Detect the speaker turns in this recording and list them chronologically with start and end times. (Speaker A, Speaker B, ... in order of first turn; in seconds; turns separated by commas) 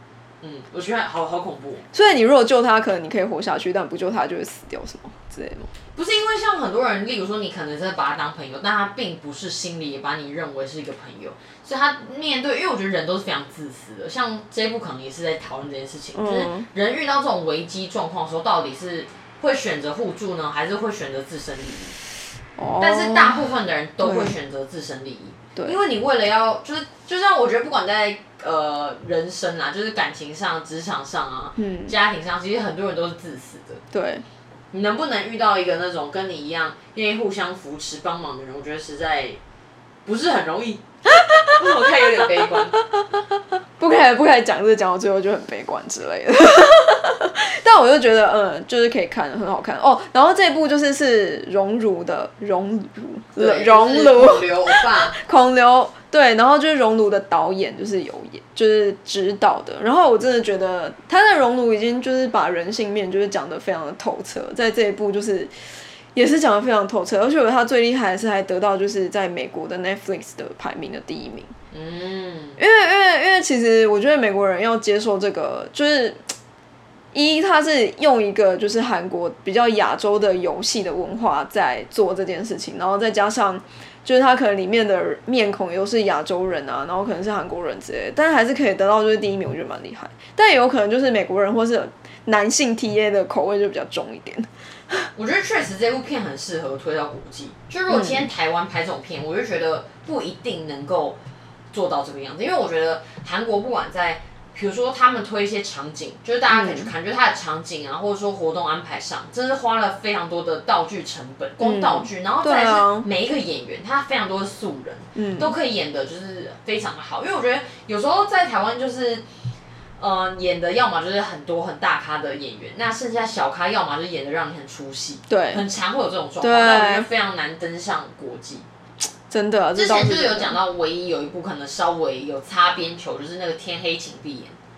Speaker A: 0.4-1.8, Speaker B: 1.9-5.7, Speaker A: 5.9-21.9, Speaker B: 16.1-16.7, Speaker B: 22.6-23.5, Speaker A: 22.8-33.8, Speaker B: 24.0-24.4, Speaker B: 31.6-31.9, Speaker B: 33.9-34.2, Speaker A: 34.7-39.4, Speaker A: 40.0-40.8, Speaker A: 41.5-42.8, Speaker B: 43.8-65.5, Speaker A: 53.4-55.1, Speaker B: 66.1-71.5, Speaker A: 71.7-72.6, Speaker B: 72.6-76.2, Speaker B: 77.1-95.1, Speaker A: 95.1-101.2, Speaker B: 97.9-98.3, Speaker A: 101.7-119.2, Speaker B: 106.5-106.9, Speaker B: 111.6-113.1, Speaker B: 115.2-115.5, Speaker A: 120.0-128.7, Speaker B: 125.3-125.6, Speaker B: 126.4-127.1, Speaker B: 129.3-130.6, Speaker A: 129.7-134.6